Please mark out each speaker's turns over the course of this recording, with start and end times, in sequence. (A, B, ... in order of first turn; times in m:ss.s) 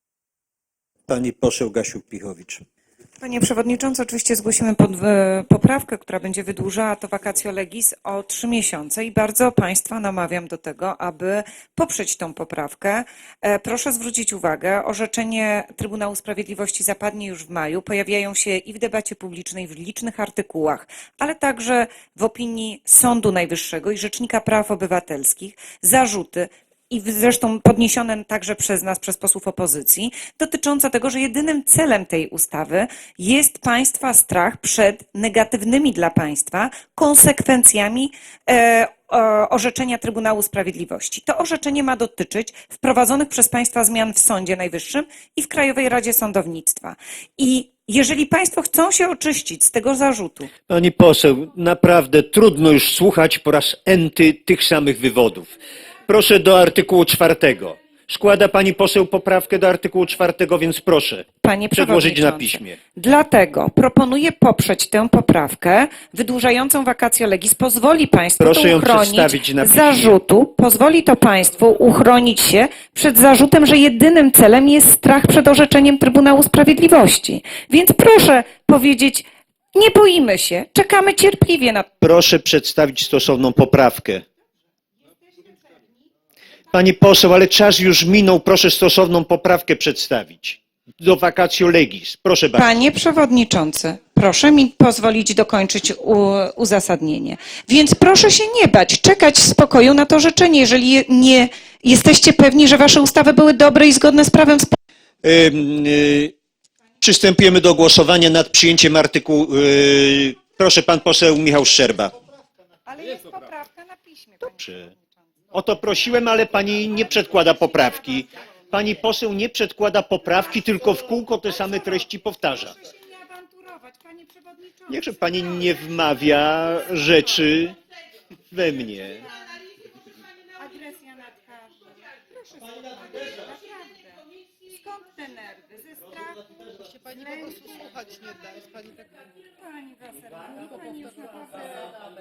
0:01.1-0:02.6 A
0:03.2-0:50.5 B
0:50.7-0:55.5 A
0:56.1-1:02.8 A
1:01.4-1:21.9 B
1:08.4-1:10.1 A
1:22.0-1:24.2 A
1:26.7-1:32.8 A
1:32.5-1:44.8 B
1:45.2-1:46.3 A
1:47.0-1:52.1 A
1:52.9-1:55.1 B
1:54.5-1:54.8 A
1:55.5-2:02.7 A
2:02.8-2:05.0 B
2:04.9-2:07.8 A
2:08.5-2:09.2 A
2:10.6-2:14.2 B
2:14.7-2:16.4 B
2:16.8-2:19.1 C
2:17.2-2:17.8 B
2:19.5-2:21.9 B
2:20.6-2:21.1 C